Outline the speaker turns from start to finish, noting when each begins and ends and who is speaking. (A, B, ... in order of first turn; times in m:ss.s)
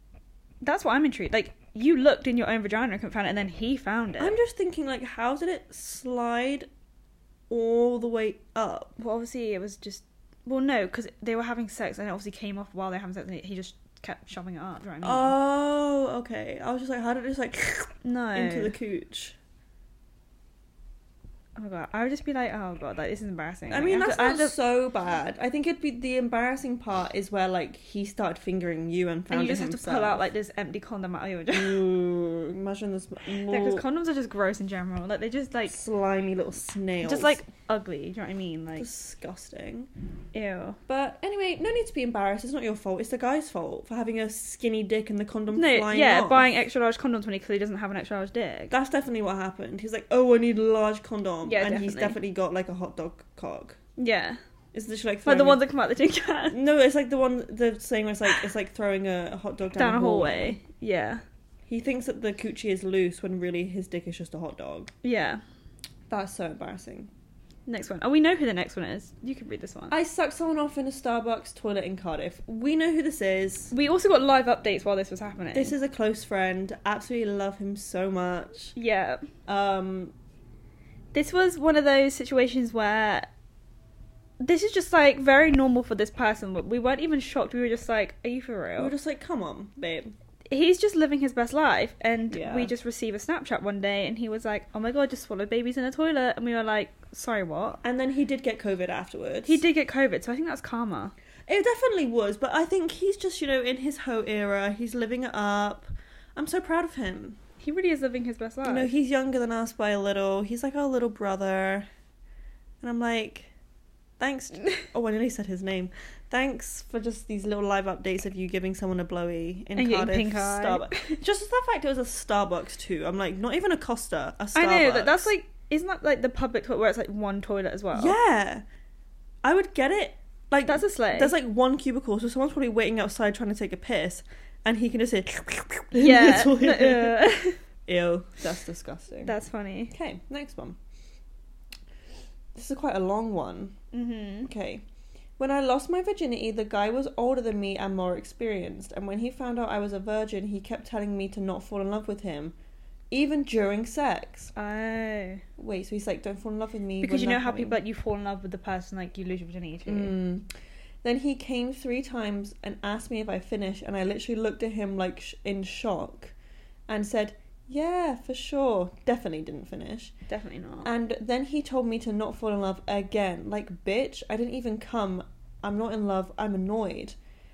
0:00.6-0:04.4 A
0:04.2-0:06.7 B
0:07.5-0:09.0 B
0:09.0-0:15.4 A
0:15.0-0:19.4 B
0:18.0-0:18.8 A
0:21.6-0:24.6 A
0:23.7-0:30.2 B
0:29.3-0:31.8 A
0:31.5-0:33.8 B
0:33.5-0:35.8 A
0:35.7-0:37.4 B
0:37.0-0:38.9 A
0:38.8-0:39.9 B
0:40.3-0:40.8 A
0:40.9-0:46.5 B
0:45.5-0:48.7 A
0:48.7-0:53.8 B
0:51.4-0:52.2 A
0:54.0-0:54.4 A
0:54.7-0:55.6 B
0:55.2-0:56.6 A
0:56.5-1:00.6 B
0:59.8-1:01.2 A
1:01.7-1:04.9 B
1:05.0-1:05.4 A
1:06.1-1:07.1 B
1:07.7-1:09.9 A
1:09.9-1:13.7 B
1:13.7-1:15.7 A
1:15.5-1:18.8 B
1:18.8-1:19.3 A
1:19.5-1:20.1 B
1:21.1-1:23.3 A
1:24.4-1:28.9 A
1:28.8-1:30.1 B
1:30.5-1:37.8 A
1:32.3-1:32.7 B
1:37.8-1:39.6 B
1:39.4-1:41.1 A
1:41.5-1:47.4 B
1:47.6-1:48.9 A
1:48.6-1:51.9 B
1:52.8-1:53.5 B
1:54.2-2:05.3 B
1:59.8-2:01.2 A
2:04.6-2:08.2 A
2:07.9-2:08.6 B
2:09.4-2:17.3 B
2:10.7-2:11.3 A
2:15.9-2:17.6 A
2:17.9-2:19.3 B
2:19.2-2:19.9 A
2:19.9-2:20.8 B
2:22.6-2:23.8 B
2:23.9-2:24.5 A
2:24.4-2:24.8 B
2:25.4-2:32.6 B
2:33.1-2:34.5 B
2:34.6-2:35.4 A
2:35.6-2:37.8 B
2:37.0-2:40.1 A
2:39.9-2:40.5 B
2:41.0-2:46.3 B
2:46.9-2:50.1 B
2:50.3-2:50.9 A
2:50.8-2:57.2 B